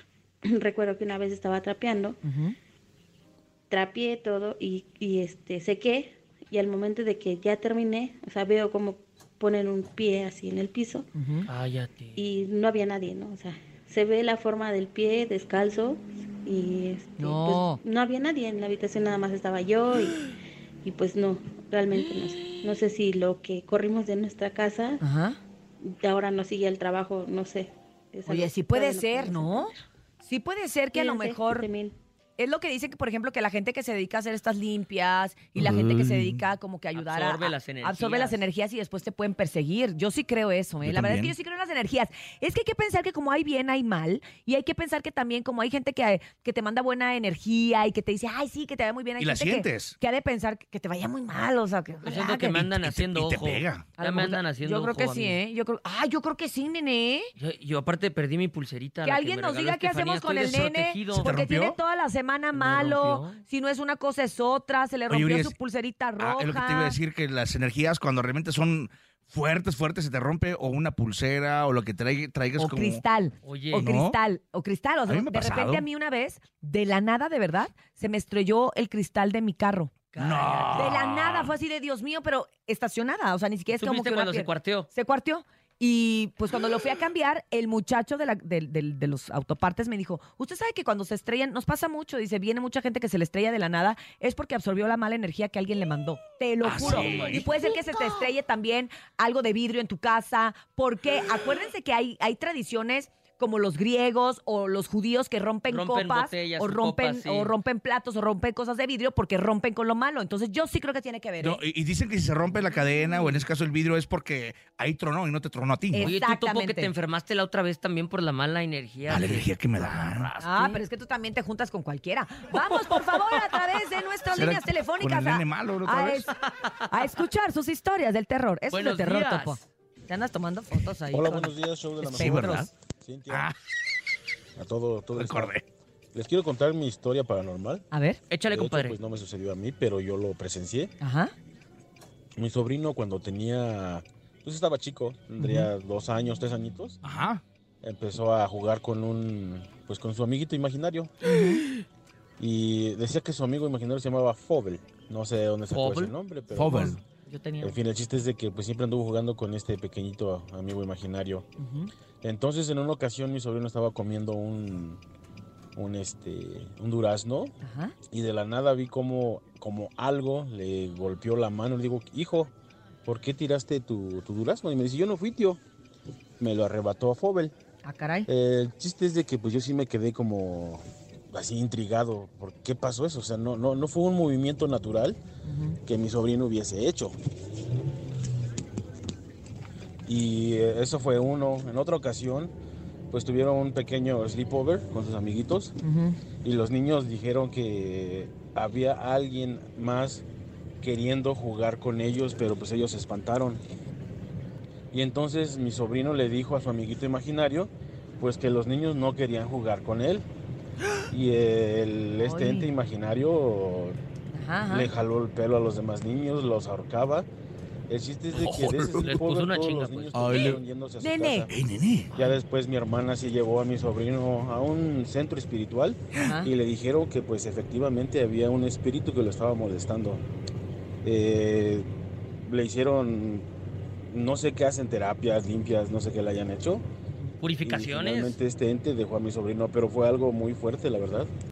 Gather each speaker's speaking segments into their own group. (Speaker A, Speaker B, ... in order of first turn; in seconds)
Speaker A: 0.4-2.2, 3.7-11.1, 12.2-20.3, 20.8-25.0, 25.8-29.8, 30.9-31.9
Speaker B: 2.2-2.5, 11.1-11.5, 17.2-17.8, 22.3-22.6, 25.0-25.4, 28.2-31.7, 32.4-52.6, 54.0-57.3, 59.0-67.0, 72.6-79.9, 80.7-111.6, 115.9-116.9, 120.4-126.3, 126.9-132.7, 137.9-138.2, 141.0-141.3, 145.4-145.7, 151.2-151.6, 157.2-157.8, 161.6-161.9, 167.6-167.9, 177.8-178.3, 185.4-185.8, 195.8-196.2, 212.2-212.7, 214.3-214.9, 221.0-221.5, 226.2-226.5
Speaker C: 11.5-12.2, 36.9-38.5, 52.0-55.4, 57.4-61.3, 62.5-63.4, 73.4-73.9, 80.1-80.9, 83.7-84.9, 96.9-97.3, 105.7-107.5, 116.0-120.8, 122.6-123.3, 128.7-129.6, 138.3-139.0, 155.7-156.1, 218.3-220.5, 237.4-238.4
Speaker D: 35.5-36.4, 40.8-41.3, 49.2-49.9, 52.8-53.8, 61.2-61.8, 65.1-65.5, 66.2-73.0, 73.8-74.2, 75.1-75.8, 80.2-81.5, 96.6-97.5, 111.4-116.1, 119.1-120.4, 124.3-126.2, 132.1-132.7, 135.2-135.6, 147.0-147.4, 156.5-157.0, 218.4-219.1, 220.1-220.6, 221.5-222.1
Speaker E: 131.1-133.5, 134.6-135.5, 136.1-137.8, 138.5-140.9, 142.3-147.0, 147.8-151.1, 152.4-157.0, 157.6-161.4, 162.2-165.0, 165.8-167.5, 168.1-172.5, 173.0-175.6, 176.4-177.5, 178.3-185.2, 185.8-187.2, 190.1-192.5, 193.1-195.7, 196.4-200.2, 200.8-203.6, 204.9-210.2, 211.1-214.0, 214.7-217.3, 217.9-221.5, 222.1-230.2, 231.0-231.9, 232.4-233.4, 234.1-236.8, 237.6-241.3